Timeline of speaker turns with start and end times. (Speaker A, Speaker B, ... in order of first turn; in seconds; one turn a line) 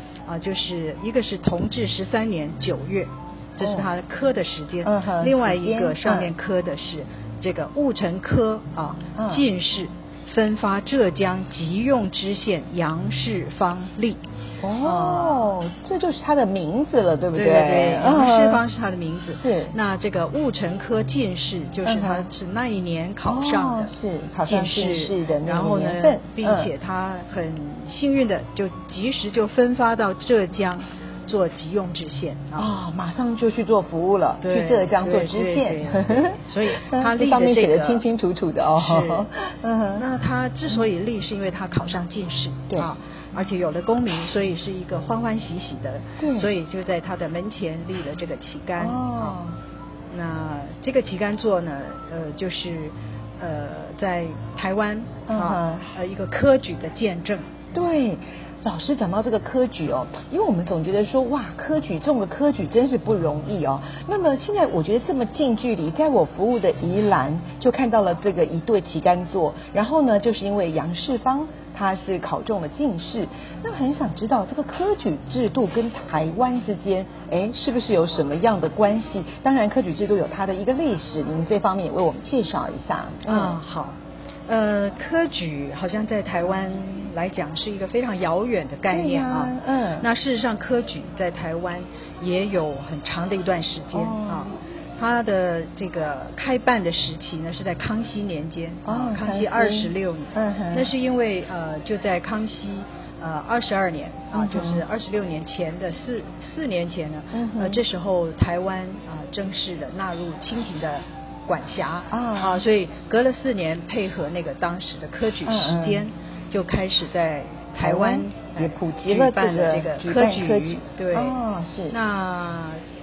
Speaker A: 0.3-14.2
Speaker B: 3.6-3.9
Speaker B: 4.8-6.3
Speaker B: 9.2-9.4
Speaker B: 14.6-18.6
Speaker A: 14.8-15.5
Speaker A: 17.3-23.9
Speaker B: 19.4-19.7
Speaker B: 21.8-22.3
Speaker B: 23.2-26.7
Speaker A: 24.4-32.7
Speaker B: 32.6-40.0
Speaker A: 34.4-38.0
Speaker A: 38.7-39.3
Speaker A: 40.0-49.4
Speaker B: 46.2-46.5
Speaker B: 48.8-49.6
Speaker A: 50.1-57.5
Speaker B: 55.3-55.8
Speaker B: 57.7-83.6
Speaker A: 83.2-84.0
Speaker A: 84.5-121.4
Speaker B: 88.9-90.0
Speaker B: 93.9-94.6
Speaker B: 98.8-100.9
Speaker B: 104.3-104.8
Speaker B: 107.3-107.8
Speaker B: 112.1-112.6
Speaker B: 115.4-116.1
Speaker B: 117.8-122.0
Speaker A: 121.9-122.8